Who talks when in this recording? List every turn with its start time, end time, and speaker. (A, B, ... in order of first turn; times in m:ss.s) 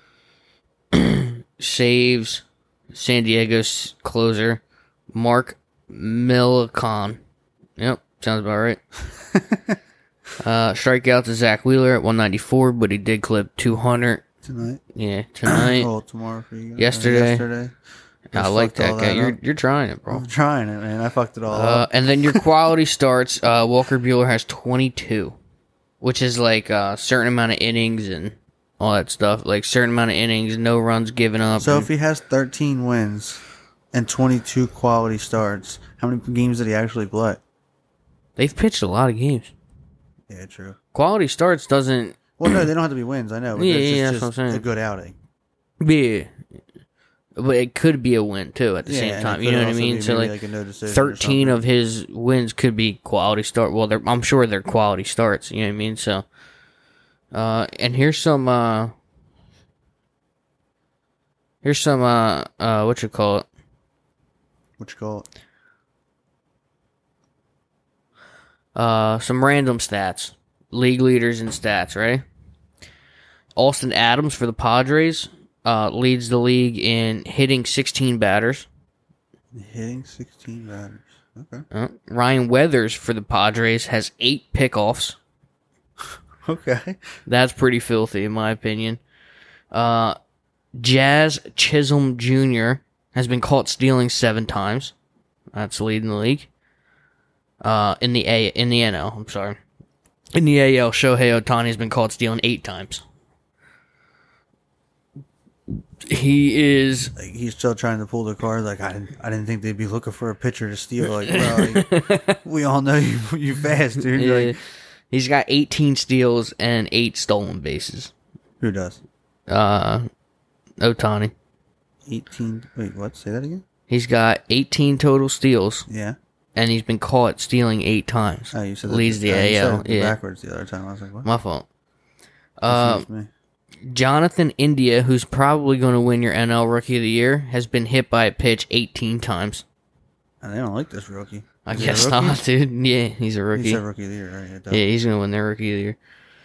0:00.9-0:07.2 A
0:07.8-0:08.8 A
0:09.3-0:09.8 B
0:10.4-0:14.2 A
0:14.4-0:14.8 B
0:14.9-0:15.9 A
0:15.4-0:17.7 B
0:16.8-0:17.4 A
0:18.3-0:20.2 A
0:18.3-0:19.4 B
0:20.1-0:22.4 B
0:21.5-0:25.4 A
0:26.0-0:31.9 A
0:31.6-0:37.4 B
0:38.4-0:39.5 A
0:40.3-0:40.8 B
0:40.9-0:42.6 A
0:42.4-0:45.1 B
0:43.5-0:44.6 A
0:45.8-0:46.4 A
0:47.4-0:50.3 A
0:48.8-0:51.6 B
0:50.9-0:56.2 A
0:57.3-0:58.9 A
1:01.6-1:03.4 A
1:04.8-1:05.2 B
1:08.7-1:12.2 A
1:13.6-1:18.7 A
1:19.5-1:21.6 B
1:21.7-1:25.2 A
1:26.4-1:27.0 B
1:27.3-1:29.0 A
1:29.7-1:30.2 A
1:30.8-1:34.9 A
1:35.5-1:36.5 A
1:37.6-1:39.6 A
1:40.4-1:43.0 A
1:46.0-1:47.1 A
1:47.1-1:54.5 B
1:51.2-1:52.4 A
1:54.1-1:54.6 A
1:55.1-1:58.1 A
1:58.6-1:59.0 B
1:59.5-2:00.1 A
2:00.8-2:01.3 A
2:02.1-2:03.6 B
2:03.9-2:05.9 A
2:05.9-2:06.2 B
2:06.5-2:10.2 A
2:08.5-2:11.3 B
2:11.2-2:11.6 A
2:12.6-2:13.0 A
2:12.7-2:13.3 B
2:13.9-2:19.6 A
2:20.4-2:22.4 B
2:21.6-2:23.8 A
2:23.5-2:24.8 B
2:24.7-2:26.0 A